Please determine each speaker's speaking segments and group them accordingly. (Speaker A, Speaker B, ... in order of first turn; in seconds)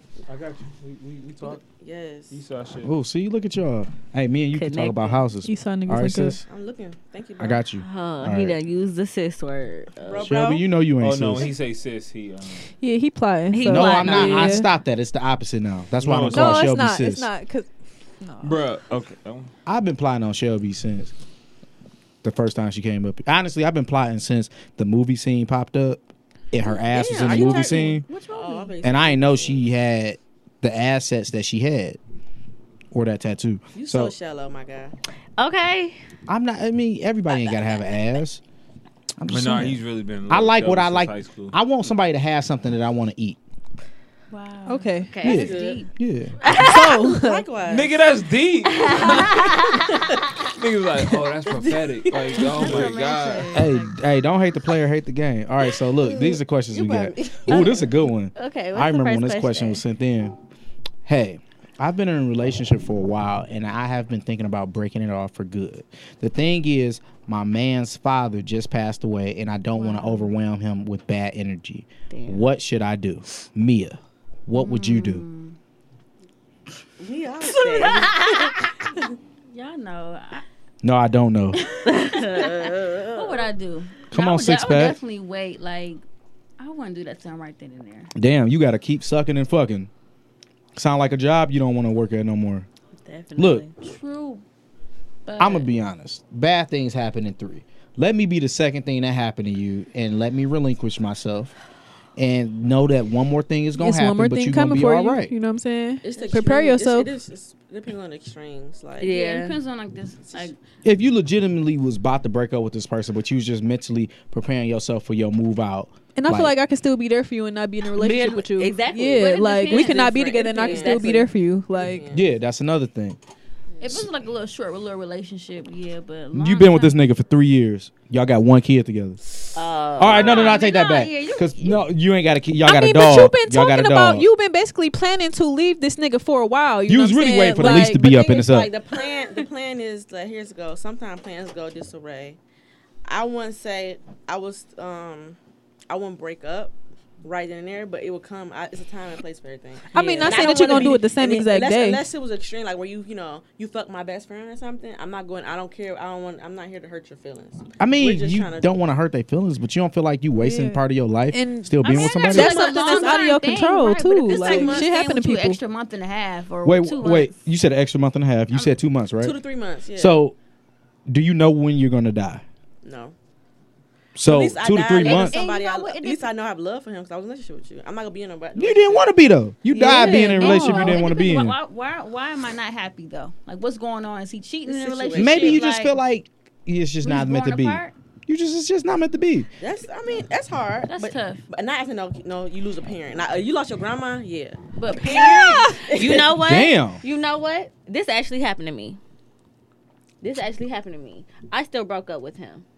Speaker A: 0.3-1.6, 2.3-2.9, 11.0-12.7, 16.0-16.8, 18.4-19.5, 39.3-41.5, 47.6-49.4, 50.5-53.6
Speaker B: 1.4-2.4, 6.4-7.6, 10.0-10.6, 26.7-29.6, 33.7-34.9, 45.3-45.8, 46.7-48.0, 48.9-50.2, 51.6-52.9, 56.7-57.8, 77.0-78.5, 106.0-109.2, 119.7-122.2, 137.6-142.4, 143.0-145.4, 145.9-158.7, 162.8-163.2, 164.3-164.9, 169.2-170.2, 172.8-173.1, 174.2-179.1, 184.7-185.7, 189.6-196.4
Speaker C: 2.8-6.4, 7.4-8.6, 10.2-11.5, 13.7-17.3, 19.6-21.1, 22.2-28.1, 28.8-32.0, 32.9-34.1, 36.3-38.4, 39.2-43.4, 45.2-46.4, 53.5-60.4, 61.0-75.2, 80.8-81.6, 84.1-85.0, 88.2-89.9, 90.7-92.7, 93.3-93.7, 95.4-101.5, 102.2-105.3, 110.8-116.5, 122.1-123.2, 126.3-129.2, 130.0-134.2, 136.9-138.7, 157.8-162.7, 166.6-169.4, 169.9-170.3, 171.1-172.4, 174.1-175.4, 178.6-181.6, 185.1-189.5, 196.4-197.0
Speaker D: 4.5-5.2, 7.8-10.3, 13.5-14.5, 27.2-27.6, 35.4-36.0, 45.1-45.8, 46.4-47.0, 48.7-50.0, 57.5-59.8, 72.1-72.4, 77.8-78.6, 81.8-83.5, 93.0-93.7, 109.0-109.6, 118.0-121.2, 129.5-130.6, 175.0-176.2, 195.1-199.0, 200.2-202.6
Speaker E: 5.4-6.4, 12.8-14.7, 16.3-17.7, 18.2-18.6, 44.6-45.2, 46.5-47.5, 103.8-107.1, 116.2-122.1, 132.6-138.1, 149.9-152.1, 160.4-165.6, 179.9-181.0
Speaker F: 28.1-28.7, 44.3-45.9, 52.4-54.0, 69.7-70.3, 74.5-75.5, 79.5-80.4, 81.7-86.0, 86.6-88.1, 93.8-94.4, 95.2-95.7, 109.1-110.6, 123.8-127.0, 130.1-131.8, 161.8-167.4, 175.1-176.1, 179.8-186.0, 187.0-187.9, 190.9-191.4, 194.8-195.8